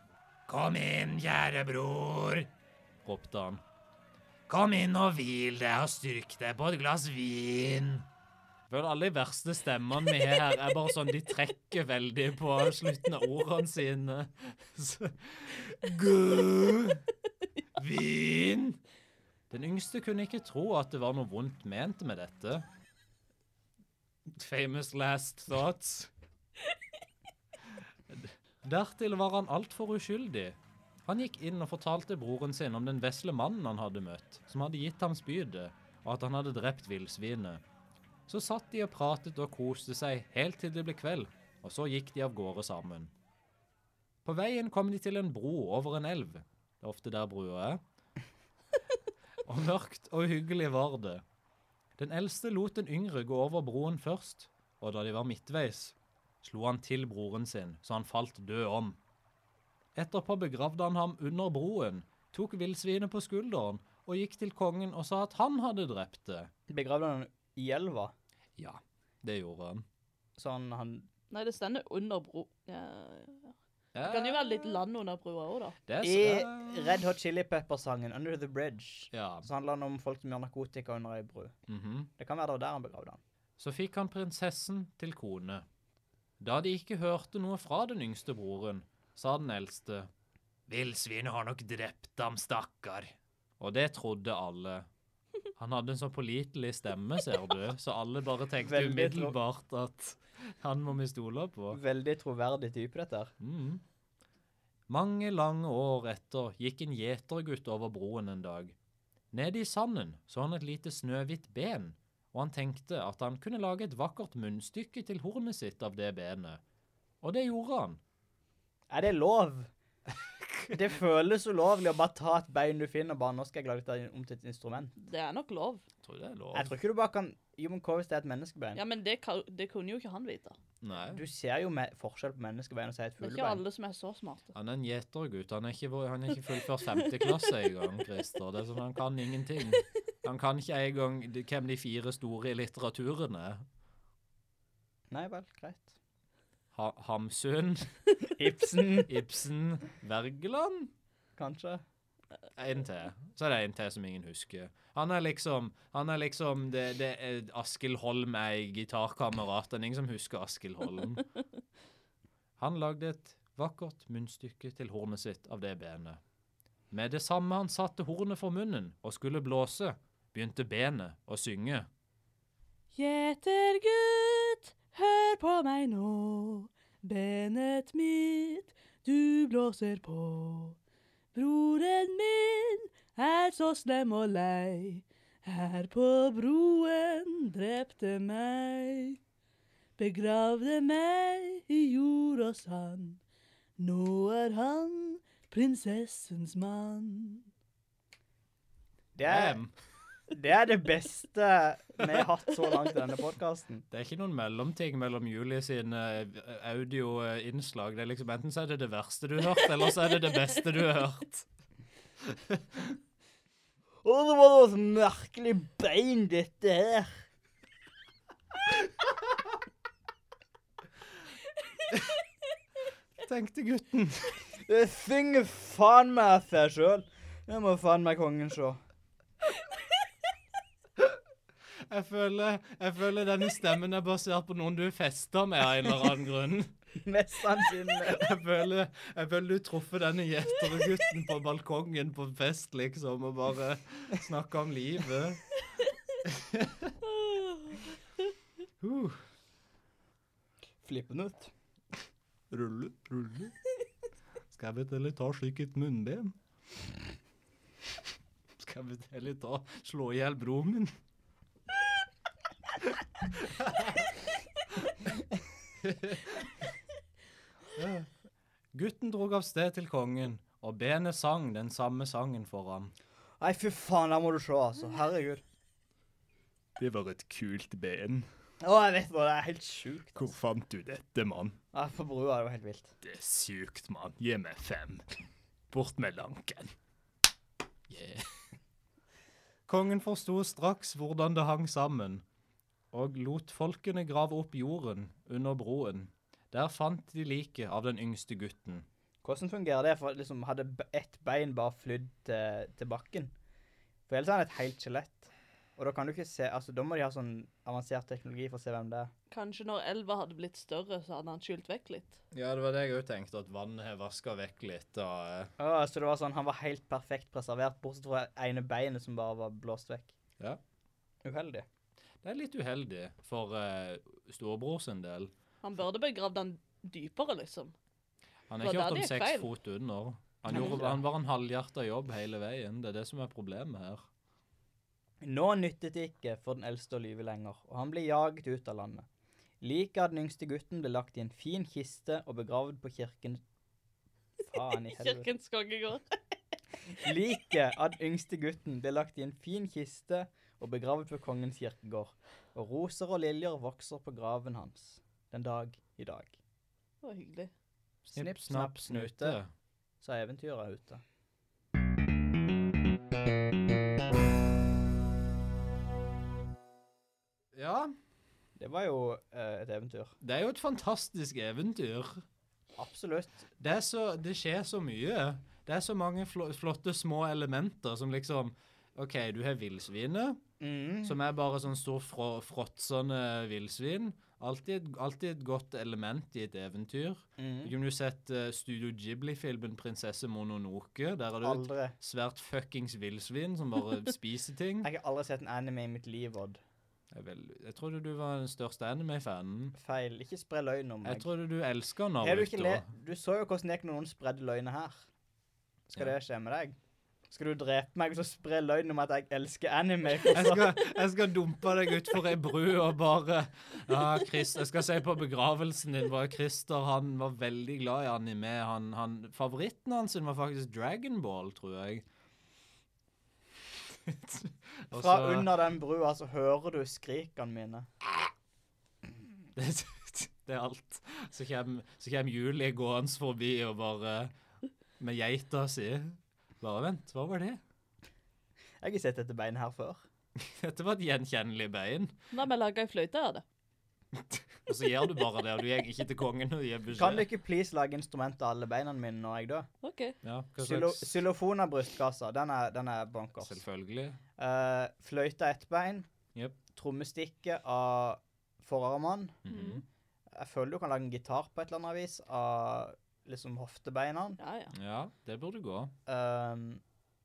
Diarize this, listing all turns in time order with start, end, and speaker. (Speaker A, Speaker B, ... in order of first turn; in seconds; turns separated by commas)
Speaker A: 0.5-2.5, Speaker A: 3.0-3.6, Speaker A: 4.5-8.1, Speaker A: 8.7-17.1, Speaker A: 17.7-18.8, Speaker A: 19.5-22.6, Speaker A: 24.2-26.1, Speaker A: 28.1-37.6, Speaker A: 38.3-43.1, Speaker A: 44.2-47.8, Speaker A: 49.4-51.2, Speaker A: 52.0-59.0, Speaker A: 59.9-66.5, Speaker B: 66.7-68.1, Speaker A: 68.5-69.8, Speaker B: 70.4-71.1, Speaker C: 71.3-75.8, Speaker A: 73.9-74.8, Speaker A: 75.9-77.0, Speaker B: 76.0-81.5, Speaker A: 79.1-79.5, Speaker A: 81.7-82.1, Speaker B: 82.2-83.2, Speaker A: 83.6-85.6, Speaker A: 86.4-90.1, Speaker A: 90.7-94.9, Speaker A: 95.6-101.8, Speaker B: 98.6-99.4, Speaker B: 101.7-103.3, Speaker A: 103.4-103.8, Speaker A: 104.9-108.8, Speaker A: 109.3-116.6, Speaker A: 117.2-118.0, Speaker B: 118.9-119.7, Speaker B: 120.7-124.9, Speaker C: 125.0-125.8, Speaker A: 126.0-126.7, Speaker B: 126.5-128.8, Speaker C: 128.8-130.6, Speaker A: 130.8-131.2, Speaker B: 131.1-133.6, Speaker C: 133.2-134.5, Speaker A: 134.5-143.6, Speaker B: 145.1-145.9, Speaker A: 146.7-147.9, Speaker B: 148.2-149.1, Speaker A: 149.0-150.9, Speaker B: 151.4-151.8, Speaker A: 152.6-161.2, Speaker A: 162.6-166.2, Speaker A: 166.9-171.9, Speaker C: 172.9-180.8, Speaker C: 181.3-189.2, Speaker C: 190.0-193.2, Speaker C: 193.8-197.5, Speaker B: 199.1-199.6, Speaker A: 199.2-199.7, Speaker B: 200.3-203.8, Speaker A: 203.9-211.5, Speaker A: 212.2-212.9, Speaker B: 214.0-217.2, Speaker A: 223.2-224.3, Speaker B: 224.6-228.8, Speaker A: 231.9-236.7, Speaker B: 237.0-238.2, Speaker A: 238.0-245.4, Speaker A: 246.2-246.9, Speaker C: 247.1-247.8, Speaker A: 248.8-249.2, Speaker B: 250.8-251.5, Speaker A: 252.5-253.5, Speaker A: 254.5-256.4, Speaker A: 258.6-260.9, Speaker A: 263.3-264.1, Speaker A: 265.8-266.6, Speaker A: 267.7-268.1, Speaker A: 268.7-272.9, Speaker B: 273.4-275.4, Speaker A: 276.8-278.2, Speaker B: 278.6-280.3, Speaker A: 280.1-281.5, Speaker B: 281.7-282.9, Speaker A: 283.0-285.0, Speaker A: 285.7-286.7, Speaker A: 287.9-288.3, Speaker A: 289.7-292.2, Speaker A: 292.9-298.8, Speaker B: 299.2-303.3, Speaker B: 304.1-309.1, Speaker C: 309.3-312.2, Speaker A: 312.3-315.5, Speaker B: 315.6-320.1, Speaker B: 321.2-321.6, Speaker A: 322.2-325.3, Speaker C: 325.6-327.7, Speaker A: 328.5-334.0, Speaker C: 328.6-329.5, Speaker B: 330.5-331.0, Speaker B: 335.2-339.1, Speaker B: 339.6-343.4, Speaker B: 344.4-345.3, Speaker C: 344.9-346.2, Speaker B: 347.0-356.4, Speaker C: 357.0-357.5, Speaker B: 358.1-359.4, Speaker A: 358.1-359.5, Speaker B: 360.0-361.0, Speaker A: 367.5-367.9, Speaker B: 368.6-370.1, Speaker A: 370.2-372.2, Speaker B: 372.8-373.5, Speaker A: 373.6-380.4, Speaker B: 380.6-381.2, Speaker A: 381.0-394.9, Speaker B: 387.4-387.7, Speaker B: 391.4-391.9, Speaker B: 394.8-396.6, Speaker A: 397.1-399.7, Speaker B: 399.8-401.3, Speaker A: 401.0-402.9, Speaker B: 402.2-405.0, Speaker B: 405.9-406.8, Speaker B: 407.3-410.7, Speaker A: 410.3-422.0, Speaker A: 423.9-425.5, Speaker B: 424.9-427.9, Speaker A: 429.5-434.3, Speaker A: 435.0-437.6, Speaker B: 438.8-440.0, Speaker A: 440.4-442.1, Speaker C: 442.3-443.4, Speaker A: 444.1-447.2, Speaker B: 446.9-449.7, Speaker C: 449.8-450.1, Speaker A: 450.2-451.2, Speaker B: 450.6-453.6, Speaker A: 453.4-454.2, Speaker B: 454.4-456.1, Speaker B: 456.7-459.4, Speaker A: 459.4-459.8, Speaker C: 459.5-459.8, Speaker B: 460.3-464.4, Speaker C: 464.4-464.7, Speaker A: 464.7-465.9, Speaker B: 466.1-466.8